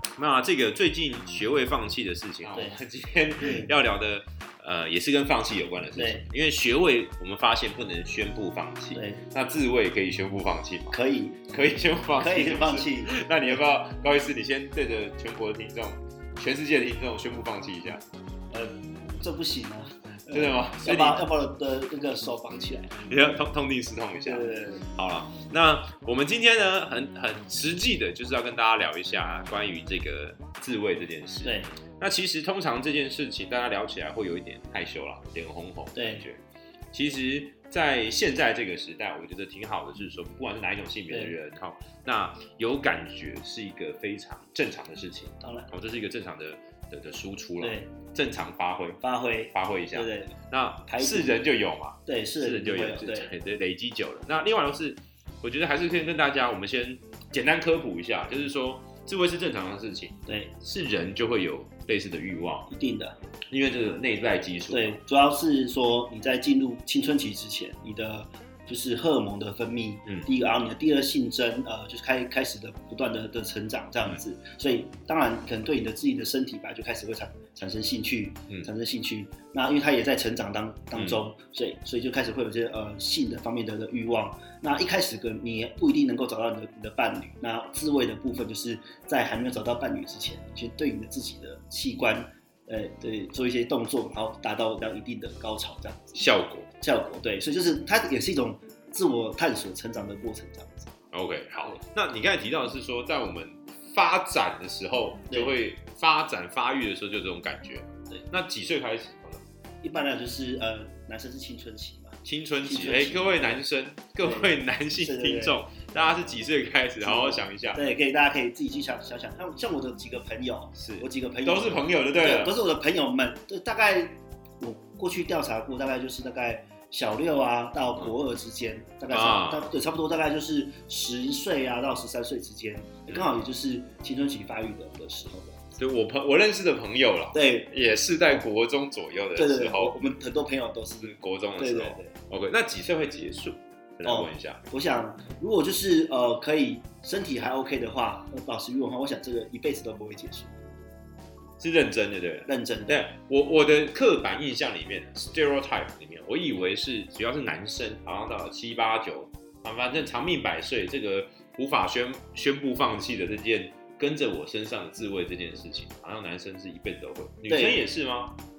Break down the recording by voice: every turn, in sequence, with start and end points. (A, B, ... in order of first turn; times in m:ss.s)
0:00.2-0:11.0 A
0:02.5-0:02.8 B
0:03.4-0:03.7 B
0:06.0-0:06.2 B
0:08.9-0:09.2 B
0:10.9-0:11.5 B
0:11.5-0:18.0 A
0:12.2-0:13.6 B
0:18.5-0:23.1 B
0:20.3-0:21.2 A
0:23.1-0:36.4 A
0:24.2-0:24.9 B
0:31.4-0:31.7 B
0:36.0-0:36.3 B
0:36.9-0:49.0 A
0:45.4-0:45.7 B
0:47.6-0:47.9 B
0:49.0-0:50.4 B
0:49.5-1:02.7 A
0:50.9-0:51.4 B
0:52.1-0:53.3 B
1:00.3-1:00.5 B
1:02.7-1:03.2 B
1:03.5-1:05.0 A
1:04.7-1:36.2 B
1:21.0-1:21.2 A
1:36.2-1:36.7 A
1:36.8-1:40.9 B
1:41.1-1:49.4 A
1:45.3-1:45.6 B
1:49.8-1:53.6 B
1:52.2-1:57.8 A
1:54.2-1:55.6 B
1:57.0-2:15.7 B
2:00.8-2:02.5 A
2:09.1-2:09.7 A
2:15.8-2:19.9 A
2:17.3-2:17.7 B
2:19.4-2:22.2 B
2:21.0-2:24.6 A
2:24.0-2:30.5 B
2:31.6-2:48.4 A
2:32.5-2:33.1 B
2:47.5-2:47.8 B